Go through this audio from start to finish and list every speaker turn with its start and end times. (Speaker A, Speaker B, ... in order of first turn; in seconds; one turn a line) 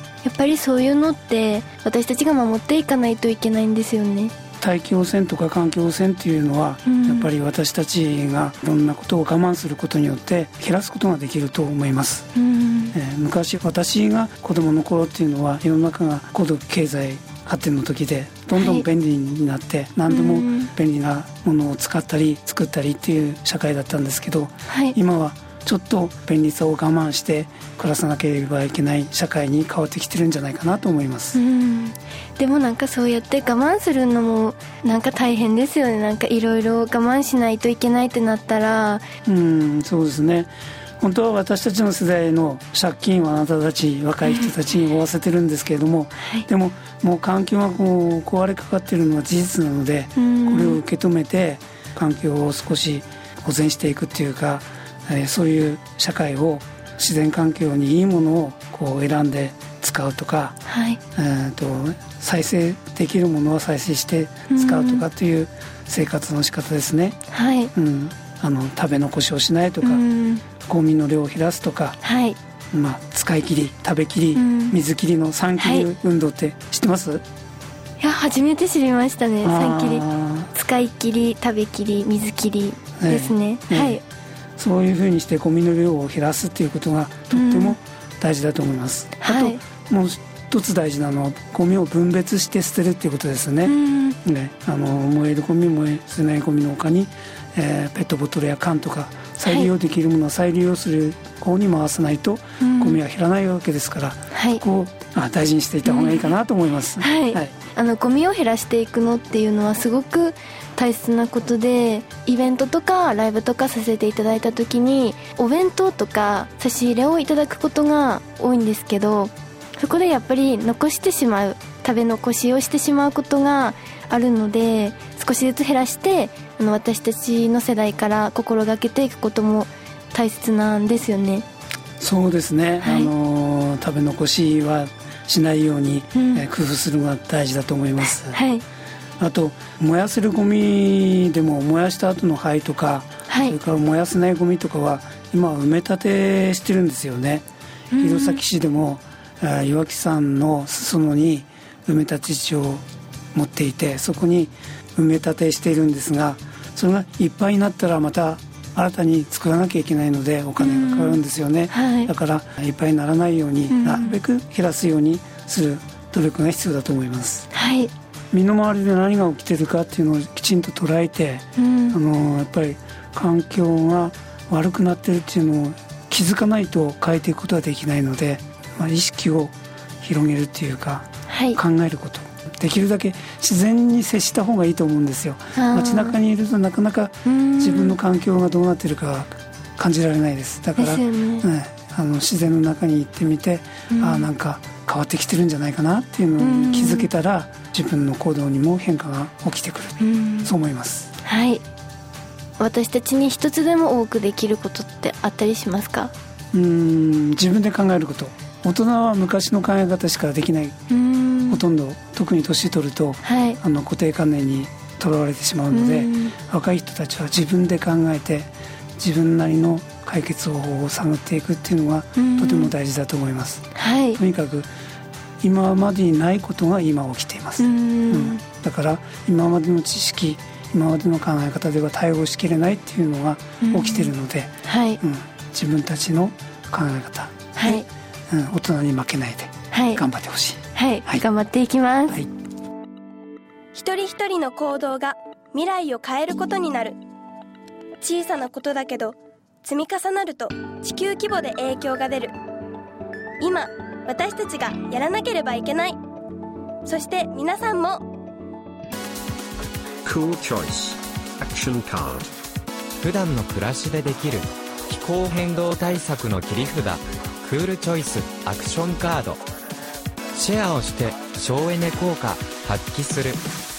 Speaker A: 0.2-4.3
Speaker B: 4.6-12.3
Speaker A: 6.9-7.3
Speaker A: 12.4-13.0
Speaker B: 12.9-31.4
Speaker A: 18.6-18.9
Speaker A: 20.1-20.7
Speaker A: 24.7-25.0
Speaker A: 31.4-39.0
Speaker B: 39.2-60.6
Speaker A: 44.3-44.5
Speaker A: 50.2-50.8
Speaker A: 60.7-61.0
Speaker B: 61.1-67.2
Speaker A: 64.5-65.0
Speaker A: 67.3-67.7
Speaker B: 67.7-70.0
Speaker A: 69.8-70.5
Speaker B: 70.6-72.0
Speaker A: 72.0-72.4
Speaker B: 72.7-77.2
Speaker A: 74.3-74.8
Speaker A: 75.6-75.9
Speaker A: 78.0-84.0
Speaker B: 79.4-80.5
Speaker B: 83.0-84.0
Speaker B: 84.6-107.5
Speaker A: 87.3-87.8
Speaker A: 89.2-89.6
Speaker A: 93.7-94.2
Speaker A: 102.6-103.0
Speaker A: 104.3-104.6
Speaker A: 105.8-106.3
Speaker A: 107.0-131.4
Speaker B: 132.0-138.4
Speaker A: 132.8-133.1
Speaker A: 136.2-136.5
Speaker A: 138.3-138.6
Speaker B: 139.2-147.4
Speaker A: 143.3-143.6
Speaker A: 147.9-148.4
Speaker B: 148.0-167.5
Speaker A: 160.6-161.2
Speaker A: 161.7-162.1
Speaker A: 163.7-164.2
Speaker A: 167.5-167.9
Speaker B: 168.3-201.1
Speaker A: 171.6-172.0
Speaker A: 181.3-181.6
Speaker A: 185.6-186.2
Speaker A: 187.3-188.0
Speaker A: 190.8-191.5
Speaker A: 193.9-194.3
Speaker A: 196.4-197.1
Speaker A: 200.0-200.5
Speaker A: 201.2-201.6
Speaker A: 202.6-206.1
Speaker B: 206.5-210.8
Speaker A: 210.9-211.6
Speaker B: 211.5-224.7
Speaker A: 213.2-213.6
Speaker A: 215.7-216.3
Speaker A: 222.2-222.7
Speaker A: 223.8-224.2
Speaker B: 225.4-241.2
Speaker A: 227.6-228.4
Speaker A: 233.6-234.1
Speaker A: 234.7-235.0
Speaker A: 237.6-237.9
Speaker A: 239.7-240.0
Speaker A: 240.8-242.2
Speaker C: 243.7-247.0
Speaker C: 248.0-252.3
Speaker C: 253.4-256.0
Speaker C: 256.9-258.0
Speaker D: 260.0-262.3
Speaker E: 263.0-269.4
Speaker E: 270.3-273.4